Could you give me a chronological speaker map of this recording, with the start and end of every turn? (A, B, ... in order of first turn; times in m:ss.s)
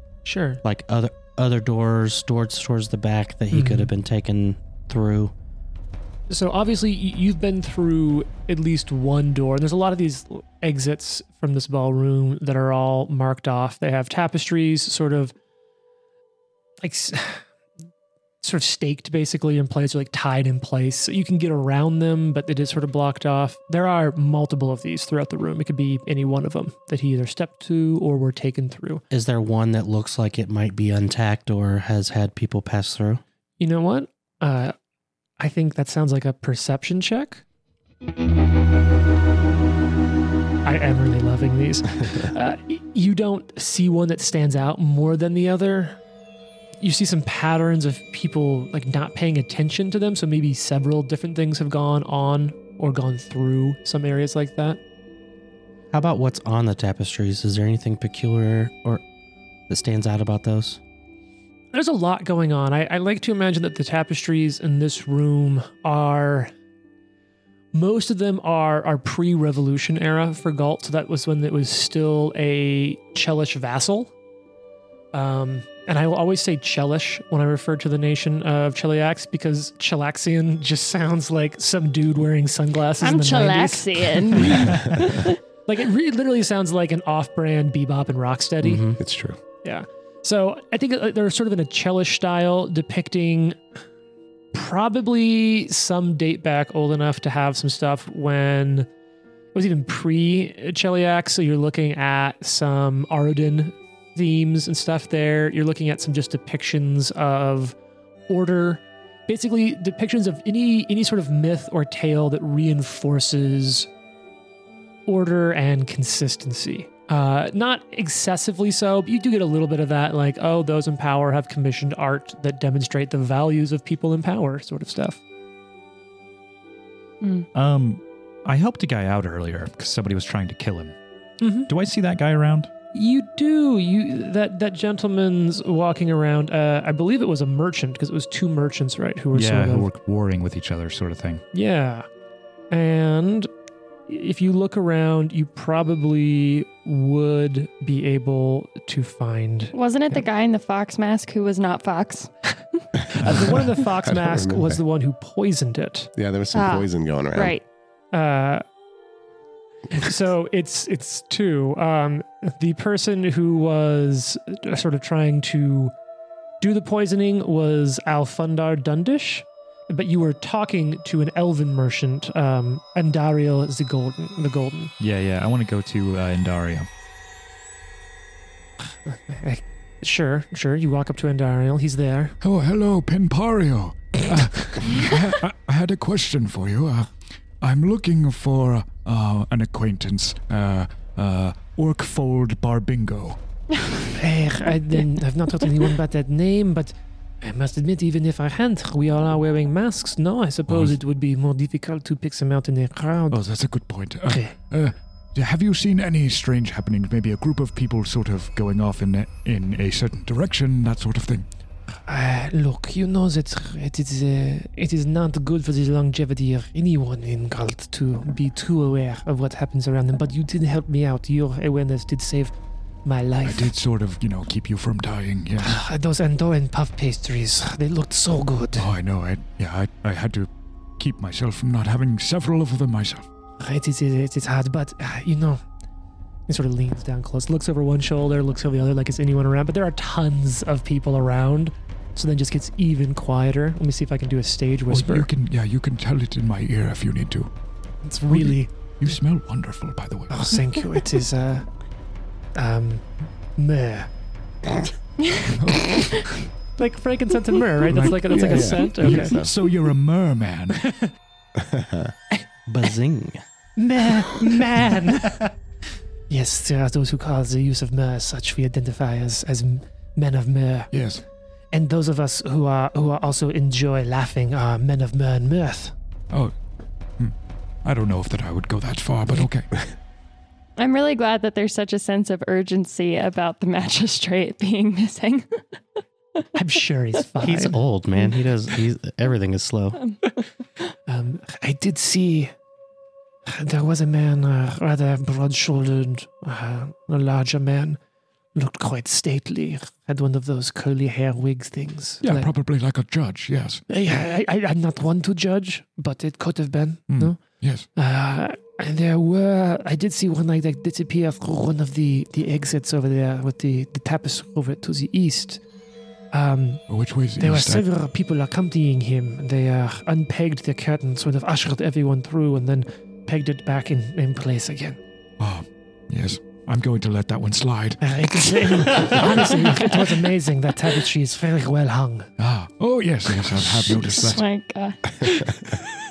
0:00.2-0:00.6 A
0:00.6-0:05.3 B
0:03.5-0:03.9 A
0:06.3-0:15.3 A
0:16.8-0:17.4 A
0:18.4-0:29.0 A
0:29.1-0:33.2 B
0:33.6-0:34.7 A
0:35.4-0:37.4 A
0:40.6-0:46.0 A
0:46.8-0:54.8 A
0:55.9-0:59.0 B
0:59.7-1:00.8 B
1:01.7-1:06.5 A
1:07.7-1:14.1 A
1:15.1-1:28.8 A
1:23.0-1:25.4 C
1:28.6-1:29.0 B
1:29.0-1:29.4 D
1:29.6-1:33.6 A
1:34.5-1:38.9 A
1:39.5-1:47.8 A
1:48.3-1:53.9 A
1:55.1-2:05.2 A
2:07.2-2:07.5 C
2:07.5-2:10.9 E
2:11.4-2:11.7 A
2:11.7-2:12.7 E
2:12.9-2:19.9 A
2:19.3-2:21.4 E
2:21.5-2:22.0 A
2:22.7-2:23.5 A
2:24.1-2:30.2 A
2:29.7-2:32.3 C
2:33.1-2:36.1 A
2:34.0-2:34.8 D
2:36.2-2:37.6 D
2:36.5-2:37.6 C
2:38.1-2:38.6 A
2:39.9-2:45.9 A
2:46.6-2:54.9 A
2:55.0-2:56.9 E
2:59.1-3:02.4 A
3:02.4-3:13.4 F
3:14.1-3:23.4 A
3:20.7-3:21.0 F
3:23.3-3:31.4 F
3:24.3-3:24.5 A
3:32.1-3:42.5 A
3:43.0-3:43.7 A
3:43.4-3:45.8 F
3:45.6-3:48.9 A
3:48.8-3:53.3 F
3:53.6-3:55.6 A
3:56.5-4:05.3 A
4:04.9-4:07.5 F
4:08.0-4:08.7 A
4:08.3-4:10.8 F
4:10.3-4:11.7 A
4:12.6-4:14.1 A
4:15.2-4:16.2 C
4:15.5-4:16.4 F
4:16.8-4:19.4 A
4:17.9-4:20.9 F
4:18.3-4:19.6 D
4:20.8-4:21.1 A
4:21.6-4:22.1 D
4:22.7-4:23.4 B
4:23.8-4:25.5 A
4:26.3-4:30.9 A
4:30.9-4:31.2 F
4:31.7-4:35.9 A
4:37.2-4:39.7 F
4:40.8-4:45.8 C
4:46.6-4:47.8 A
4:47.4-4:50.0 B
4:51.1-4:52.5 A
4:53.5-4:58.0 A
4:58.6-5:02.5 A
5:02.2-5:03.8 F
5:03.9-5:07.4 A
5:07.1-5:07.9 F
5:08.0-5:15.6 A
5:16.3-5:16.8 A
5:16.9-5:17.9 F
5:17.4-5:25.0 A
5:25.4-5:29.2 F
5:28.0-5:32.3 A
5:29.6-5:30.1 C
5:32.4-5:34.4 F
5:33.9-5:35.7 C